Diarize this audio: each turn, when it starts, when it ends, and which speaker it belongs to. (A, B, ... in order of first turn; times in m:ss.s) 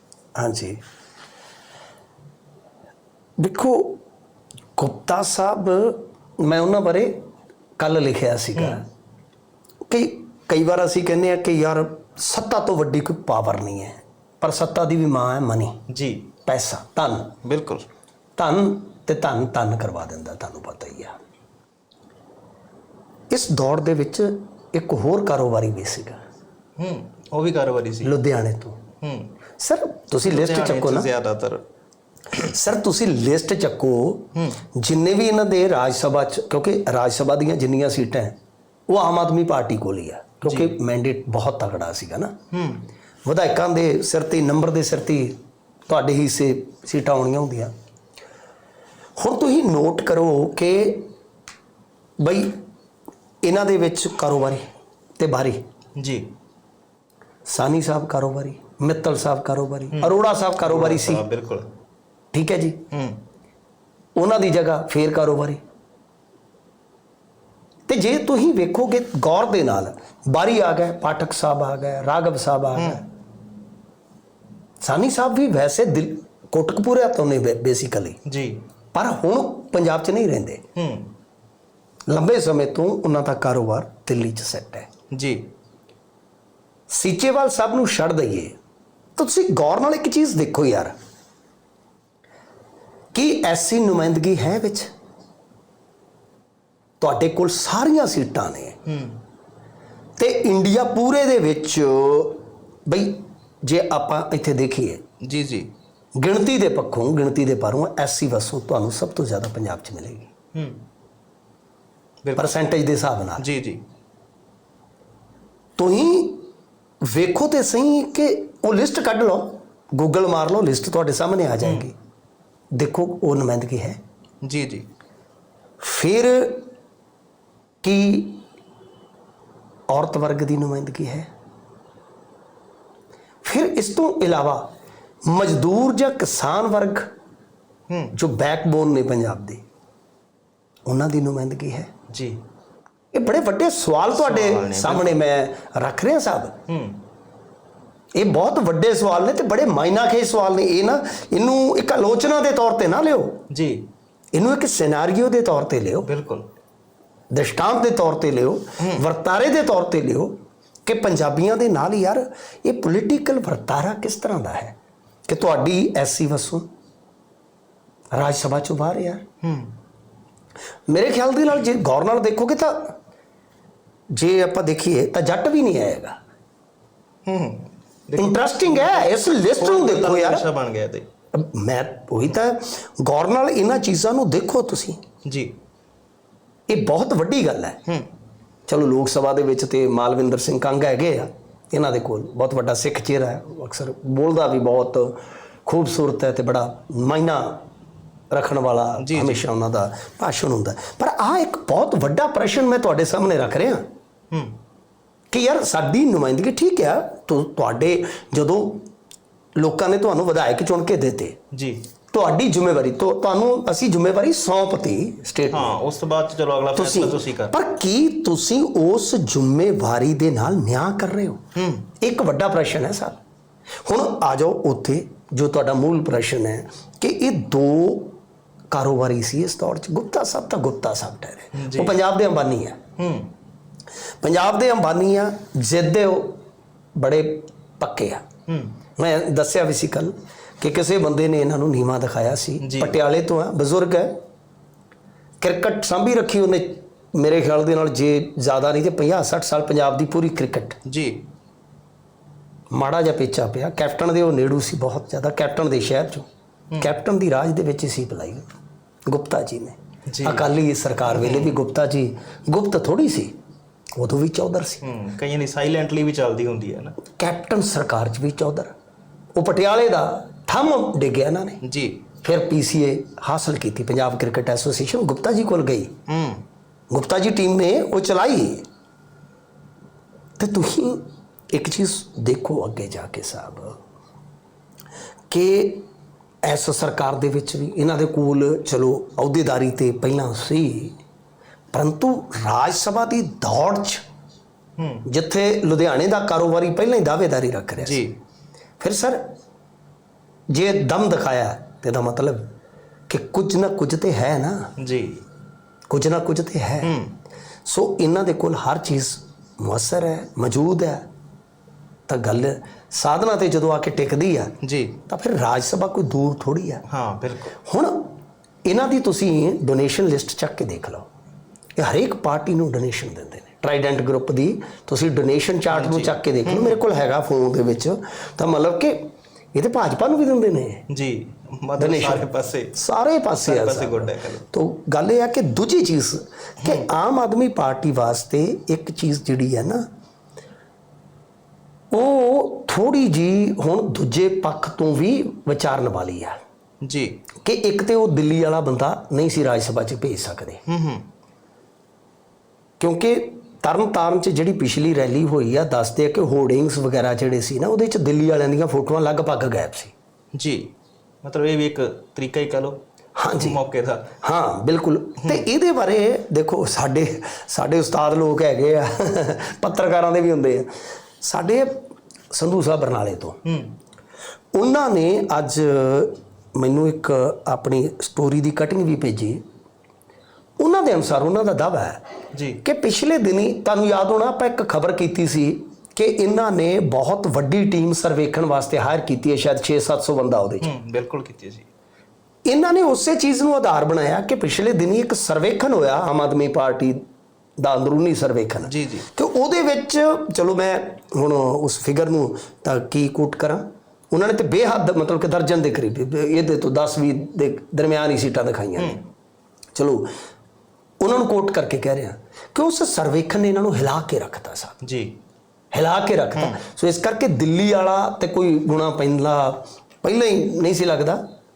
0:00.4-0:00.8 A
0:03.4-0:04.0 A
0:04.8-0:07.2 A
0:07.8-0:08.8 A
0:08.5-0:08.8 B
0:09.9-0:15.8 A
0:15.9-0:16.3 B
0:16.4-0:17.3 A
0:17.4-0:17.8 B
0:18.4-0:21.2 A
0:23.3-0:26.2 A
0:26.8-0:28.1 B
0:28.0-0:28.8 A
0:29.0-0:29.3 B
0:29.6-0:31.1 A
0:30.2-0:31.6 B
0:32.4-0:38.4 A
0:34.3-0:34.6 B
0:38.9-0:42.3 A
0:40.4-0:40.8 B
0:42.5-0:42.9 B
0:43.2-0:47.7 A
0:49.2-0:51.1 A
0:52.2-0:52.6 A
0:53.4-0:54.7 A
0:55.2-0:55.6 A
0:56.0-0:56.3 B
0:57.5-1:01.2 A
0:59.9-1:01.7 B
1:02.3-1:02.8 A
1:02.9-1:03.2 B
1:04.2-1:05.6 A
1:07.9-1:13.0 A
1:12.7-1:13.0 B
1:14.8-1:18.2 A
1:18.2-1:18.6 B
1:18.9-1:20.6 A
1:20.8-1:21.1 B
1:22.1-1:24.9 A
1:25.1-1:25.5 B
1:26.9-1:28.5 A
1:29.2-1:30.9 A
1:33.1-1:34.9 A
1:37.0-1:38.8 A
1:38.9-1:39.2 B
1:40.2-1:45.0 A
1:45.2-1:45.7 B
1:46.2-1:50.3 A
1:50.5-1:50.8 B
1:52.2-1:52.6 B
1:52.4-1:53.4 A
1:53.4-1:53.8 B
1:55.8-1:56.5 A
1:57.0-2:01.9 A
2:02.7-2:04.0 A
2:04.4-2:04.9 B
2:05.8-2:06.7 A
2:07.8-2:08.4 A
2:09.9-2:11.3 A
2:13.4-2:14.7 A
2:15.2-2:17.1 A
2:17.9-2:18.1 B
2:18.1-2:19.6 A
2:20.8-2:21.9 A
2:22.1-2:22.4 B
2:23.1-2:26.6 A
2:24.1-2:25.2 B
2:26.7-2:27.0 B
2:28.1-2:33.4 A
2:33.5-2:33.9 B
2:34.3-2:36.1 A
2:36.0-2:36.5 B
2:37.3-2:44.7 A
2:38.8-2:39.0 B
2:45.3-2:46.7 A
2:48.1-2:49.2 A
2:49.4-2:49.8 B
2:50.9-2:52.9 A
2:54.1-2:56.2 A
2:57.2-3:01.0 B
2:58.2-3:00.4 A
3:01.3-3:05.0 A
3:05.2-3:05.5 B
3:06.7-3:07.8 A
3:08.7-3:17.6 A
3:18.3-3:23.8 A
3:19.0-3:19.4 B
3:25.3-3:28.9 A
3:29.6-3:31.4 A
3:31.5-3:31.8 B
3:32.1-3:35.8 A
3:35.5-3:37.6 B
3:36.7-3:41.4 A
3:41.5-3:41.9 B
3:42.0-3:43.2 A
3:43.8-3:48.2 A
3:48.7-3:52.8 A
3:51.5-3:52.0 B
3:53.0-3:53.3 B
3:54.2-3:56.4 A
3:57.0-3:58.2 A
3:58.5-3:58.8 B
3:59.0-4:04.2 A
4:02.6-4:02.9 B
4:05.4-4:10.8 A
4:10.8-4:11.2 B
4:12.7-4:16.2 A
4:16.8-4:18.5 A
4:19.1-4:23.3 A
4:20.1-4:20.5 B
4:21.0-4:21.6 B
4:24.0-4:24.8 A
4:24.8-4:27.0 B
4:27.2-4:28.7 A
4:29.3-4:31.6 A
4:31.6-4:32.0 B
4:32.2-4:35.9 A
4:36.1-4:36.4 B
4:36.9-4:38.6 A
4:40.4-4:43.8 A
4:45.3-4:45.8 A
4:46.4-4:51.0 A
4:51.7-4:54.0 A
4:54.8-4:55.1 B
4:55.0-4:58.0 A
4:57.8-4:58.2 B
4:58.8-4:59.2 A
5:00.5-5:02.5 A
5:03.1-5:04.7 A
5:04.8-5:05.2 B
5:05.9-5:07.0 A
5:06.8-5:07.2 B
5:07.6-5:11.0 A
5:12.1-5:14.6 A
5:14.6-5:15.0 B
5:15.1-5:16.8 A
5:16.9-5:17.6 B
5:17.6-5:18.1 A
5:18.6-5:21.1 A
5:21.8-5:30.8 A
5:25.7-5:26.8 B
5:30.9-5:32.8 B
5:31.8-5:39.8 A
5:33.4-5:34.4 B
5:41.9-5:46.4 A
5:46.8-5:47.2 B
5:47.4-5:50.6 A
5:50.6-5:51.1 B
5:52.8-5:59.9 A
6:00.3-6:00.7 B
6:01.2-6:02.8 B
6:03.2-6:03.6 A
6:03.4-6:04.1 B
6:04.2-6:10.7 A
6:05.2-6:05.4 B
6:11.2-6:13.4 A
6:13.4-6:13.7 B
6:14.5-6:19.4 A
6:20.6-6:22.0 A
6:22.3-6:22.6 B
6:22.6-6:30.7 A
6:30.6-6:31.7 B
6:32.4-6:37.0 A
6:37.6-6:49.0 A
6:38.6-6:39.1 B
6:48.8-6:49.0 B
6:49.7-6:50.1 A
6:51.0-6:54.8 A
6:54.8-6:55.2 B
6:55.7-7:01.2 A